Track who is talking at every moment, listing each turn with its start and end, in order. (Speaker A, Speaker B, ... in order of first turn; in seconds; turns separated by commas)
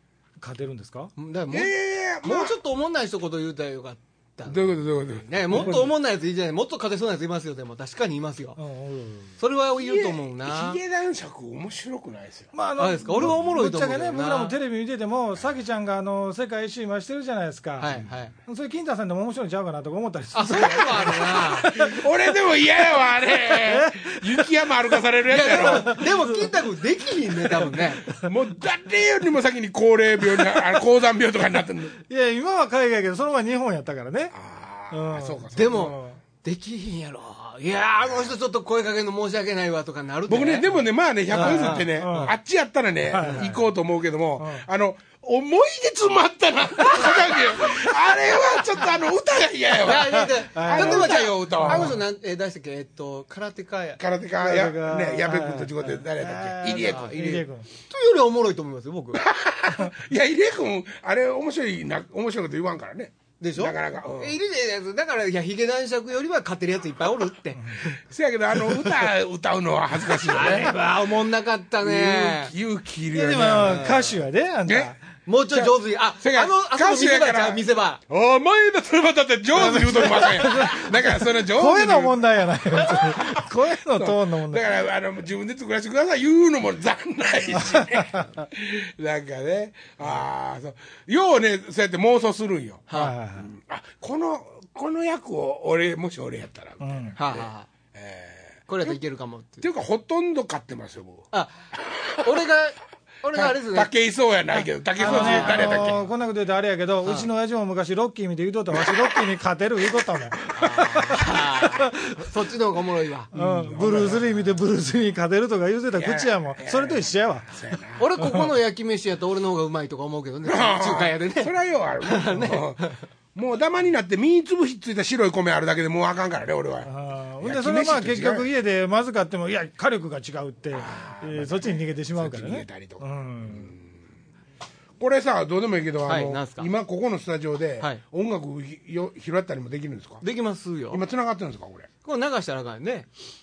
Speaker A: 0.4-1.1, Speaker B: 1.2-1.7, Speaker C: 1.5-2.6, Speaker B: 2.2-4.8, Speaker C: 4.5-5.9, Speaker B: 5.3-8.6, Speaker A: 5.5-5.9, Speaker A: 8.6-9.3, Speaker B: 9.4-10.8, Speaker C: 9.8-12.5, Speaker A: 12.5-22.1, Speaker B: 12.8-14.6, Speaker B: 17.8-18.4, Speaker B: 20.3-21.7, Speaker C: 20.7-26.1, Speaker A: 23.2-25.0, Speaker B: 25.3-28.1, Speaker A: 25.5-26.4, Speaker C: 28.1-32.0, Speaker A: 32.1-34.3, Speaker C: 34.3-36.0, Speaker A: 34.9-36.2, Speaker B: 35.5-42.3, Speaker C: 40.3-52.0, Speaker A: 41.3-42.3, Speaker A: 43.0-43.7, Speaker B: 43.2-43.5, Speaker A: 44.4-44.6, Speaker B: 47.0-48.2, Speaker B: 49.8-54.0, Speaker A: 50.5-52.0, Speaker C: 54.0-57.1, Speaker A: 54.4-57.7, Speaker B: 56.8-59.2, Speaker C: 59.1-64.4, Speaker B: 63.4-68.0, Speaker C: 68.1-70.8, Speaker B: 68.5-69.1, Speaker B: 70.0-72.5, Speaker C: 71.8-74.0, Speaker A: 73.1-75.0, Speaker B: 73.6-74.2, Speaker C: 74.7-74.9, Speaker B: 75.2-78.0, Speaker C: 75.5-92.8, Speaker A: 79.5-84.7, Speaker B: 80.1-80.7, Speaker A: 87.7-88.2, Speaker B: 92.9-93.2, Speaker A: 92.9-93.5, Speaker C: 93.4-99.0, Speaker A: 96.8-97.2, Speaker B: 97.2-97.7, Speaker B: 98.7-99.6, Speaker C: 99.6-101.3, Speaker B: 102.2-103.9, Speaker C: 103.3-106.0, Speaker A: 105.0-110.4, Speaker B: 105.0-106.1, Speaker B: 107.0-107.3, Speaker B: 110.5-113.3, Speaker C: 113.3-114.5, Speaker A: 113.3-118.5, Speaker C: 115.9-118.1, Speaker B: 118.0-123.0, Speaker C: 120.4-128.5, Speaker A: 126.8-133.7, Speaker C: 130.7-133.8, Speaker C: 135.0-140.2, Speaker B: 136.0-136.7, Speaker B: 140.2-141.0, Speaker C: 140.9-141.9, Speaker B: 142.0-143.1